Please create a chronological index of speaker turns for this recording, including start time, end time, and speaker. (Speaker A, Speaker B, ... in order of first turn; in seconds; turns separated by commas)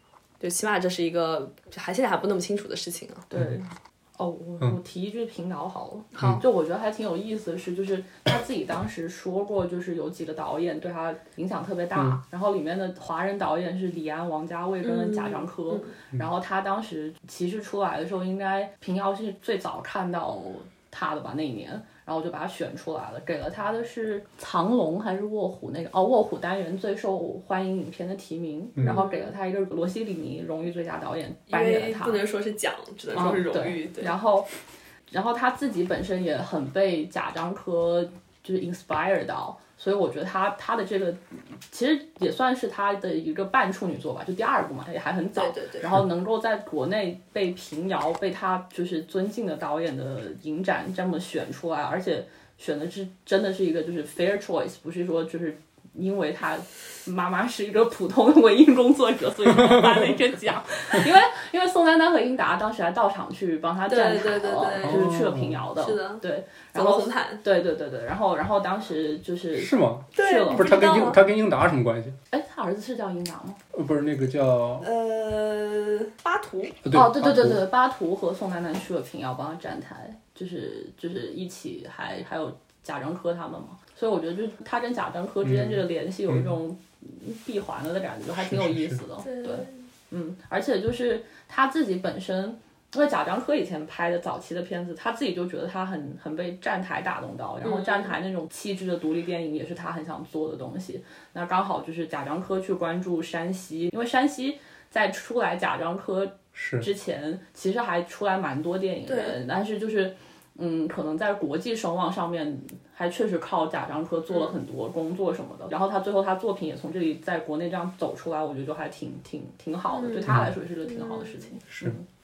Speaker A: 0.4-3.3, Speaker B: 3.3-32.2, Speaker C: 6.2-6.4, Speaker A: 14.8-15.9, Speaker A: 28.9-29.3, Speaker A: 31.5-34.2, Speaker B: 33.1-34.5, Speaker B: 35.1-70.8, Speaker A: 45.4-45.9, Speaker C: 59.7-60.0, Speaker A: 63.9-65.1, Speaker C: 64.8-65.6, Speaker A: 65.8-67.4, Speaker C: 69.6-72.2, Speaker A: 70.2-71.2, Speaker B: 72.3-73.6, Speaker C: 73.7-74.9, Speaker A: 74.8-76.8, Speaker C: 76.8-77.6, Speaker B: 76.9-122.0, Speaker C: 85.4-86.5, Speaker C: 88.4-89.0, Speaker A: 89.2-89.8, Speaker A: 97.6-98.2, Speaker C: 106.5-106.9, Speaker A: 109.1-109.4, Speaker A: 119.9-121.5, Speaker C: 121.7-122.0